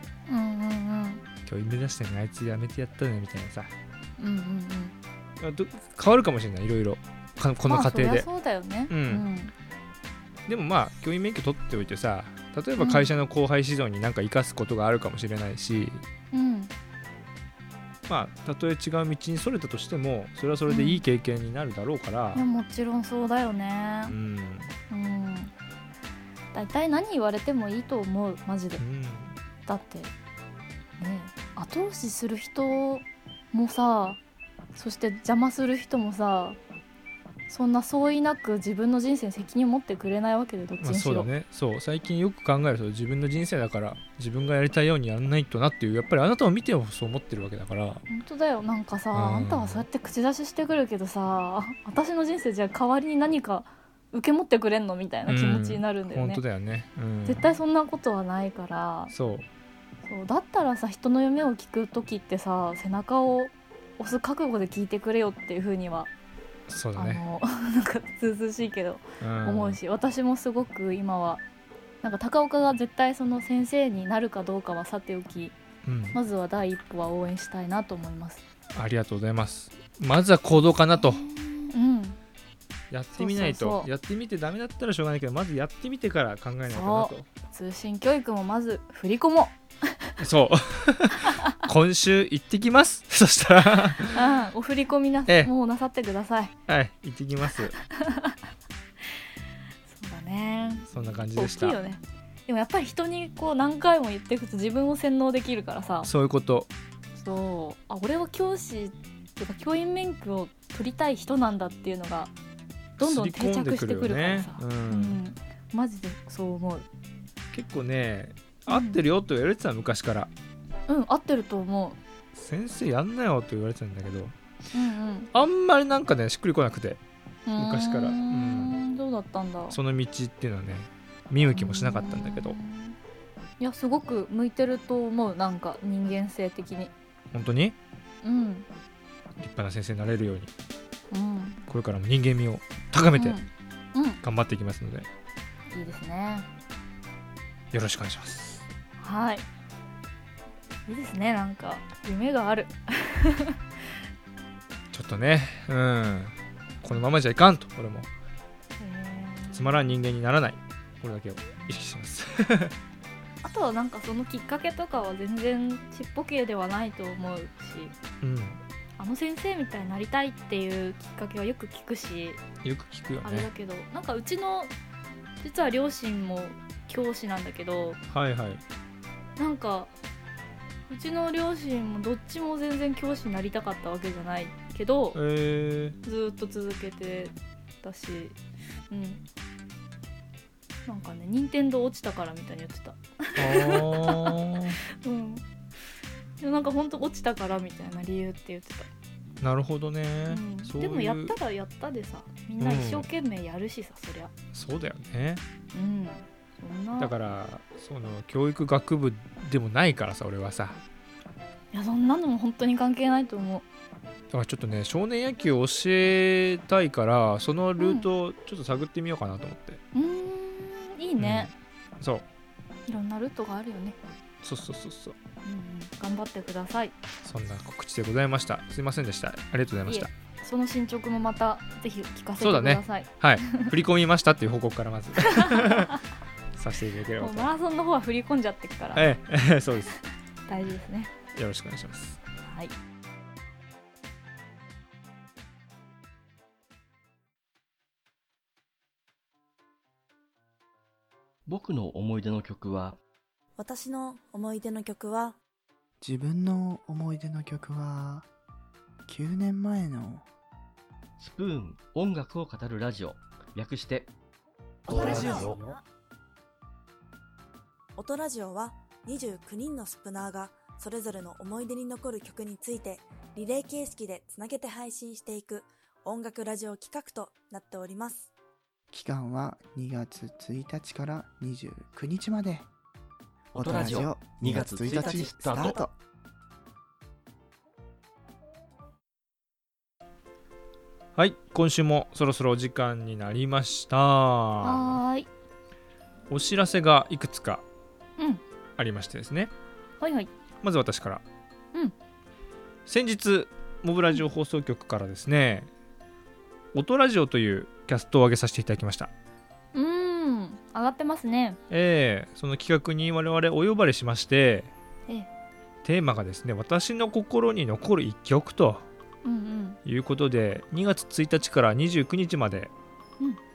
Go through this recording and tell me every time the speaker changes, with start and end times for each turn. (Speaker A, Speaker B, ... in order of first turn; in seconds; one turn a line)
Speaker A: 0.3-1.2
Speaker B: 1.4-3.7
Speaker A: 4.2-4.9
Speaker B: 5.4-8.3
Speaker A: 7.7-9.5
Speaker B: 8.9-9.2
Speaker B: 10.5-16.0
Speaker A: 12.8-13.1
Speaker A: 16.3-16.7
Speaker B: 18.1-22.4
Speaker A: 20.7-21.0
Speaker A: 22.3-24.1
Speaker B: 24.1-24.7
Speaker A: 24.9-25.5
Speaker A: 26.5-28.8
Speaker B: 28.8-29.4
Speaker A: 29.6-30.1
Speaker A: 31.0-34.2
Speaker A: 34.7-36.6
Speaker A: 37.5-41.3
Speaker B: 40.8-48.0
Speaker A: 48.1-56.4
Speaker B: 49.1-49.9
Speaker B: 55.3-57.4
Speaker A: 57.2-59.1
Speaker B: 59.1-59.5
Speaker A: 60.1-66.1
Speaker B: 66.7-67.2
Speaker A: 67.0-71.4
Speaker B: 69.2-69.8
Speaker A: 72.0-75.5
Speaker B: 75.8-76.2
Speaker A: 76.1-78.4
Speaker B: 78.7-81.2
Speaker A: 80.5-82.2
Speaker B: 82.9-87.3
Speaker A: 83.1-83.9
Speaker A: 86.7-90.2
Speaker B: 90.2-94.2
Speaker A: 94.1-96.5
Speaker B: 95.3-95.5
Speaker B: 96.7-97.7
Speaker A: 98.0-98.3
Speaker A: 99.9-106.1
Speaker B: 100.9-101.8
Speaker B: 106.0-106.7
Speaker A: 107.2-112.3
Speaker B: 113.0-115.2
Speaker A: 113.0-116.8
Speaker B: 117.5-120.3
Speaker A: 118.7-119.0
Speaker A: 120.9-122.0
Speaker B: 122.3-124.3
Speaker A: 124.7-125.3
Speaker B: 125.3-127.0
Speaker A: 127.5-129.8
Speaker B: 127.6-128.8
Speaker B: 129.7-132.6
Speaker A: 131.5-133.0
Speaker A: 133.6-136.9
Speaker B: 137.3-137.8
Speaker A: 138.2-138.7
Speaker B: 139.4-140.5
Speaker A: 141.1-141.6
Speaker B: 141.7-143.4
Speaker A: 143.1-144.2
Speaker B: 144.2-145.1
Speaker A: 145.7-146.4
Speaker B: 147.7-148.7
Speaker A: 149.0-149.4
Speaker A: 150.9-153.6
Speaker B: 154.9-158.1
Speaker A: 158.8-159.9
Speaker B: 159.5-162.7
Speaker A: 163.4-167.9
Speaker B: 168.2-168.6
Speaker A: 169.0-172.4
Speaker B: 172.6-173.5
Speaker A: 173.2-174.7
Speaker A: 175.4-178.0
Speaker B: 178.1-178.6
Speaker A: 179.4-179.9
Speaker A: 180.9-185.2
Speaker B: 185.1-186.0
Speaker A: 186.0-188.4
Speaker A: 188.9-189.2
Speaker A: 190.8-194.4
Speaker B: 193.4-194.8
Speaker A: 195.0-195.4
Speaker A: 196.4-198.9
Speaker B: 199.4-201.4
Speaker A: 200.3-204.3
Speaker B: 202.6-203.1
Speaker B: 204.5-205.4
Speaker A: 205.7-207.1
Speaker B: 207.0-210.8
Speaker A: 211.7-213.6
Speaker B: 214.3-219.8
Speaker A: 217.8-218.1
Speaker A: 219.9-221.5
Speaker B: 221.2-222.2
Speaker A: 222.9-224.0
Speaker B: 224.4-225.2
Speaker A: 225.4-226.9
Speaker B: 227.2-230.1
Speaker A: 229.8-233.7
Speaker B: 232.4-236.0
Speaker A: 235.2-236.0
Speaker B: 236.5-237.5
Speaker A: 237.2-239.1
Speaker B: 238.9-239.9
Speaker A: 240.5-241.1
Speaker B: 241.3-242.2
Speaker A: 242.4-242.7
Speaker C: 251.4-253.0
Speaker D: 253.6-255.4
Speaker E: 256.0-258.3
Speaker E: 259.1-260.2
Speaker C: 261.2-264.1
Speaker C: 264.9-265.6
Speaker D: 264.9-265.8
Speaker E: 264.9-265.8
Speaker D: 267.9-278.3
Speaker E: 278.9-282.7
Speaker C: 283.5-285.8
Speaker E: 283.5-285.9
Speaker B: 291.1-295.0
Speaker A: 294.6-295.3
Speaker B: 296.3-297.6
Speaker B: 298.8-299.5
Speaker A: 300.0-300.3
Speaker B: 300.6-301.2
Speaker B: 302.9-305.7
Speaker B: 306.7-309.1
Speaker A: 309.7-311.6
Speaker B: 311.7-314.7
Speaker B: 315.8-318.8
Speaker A: 319.2-319.8
Speaker B: 319.8-322.7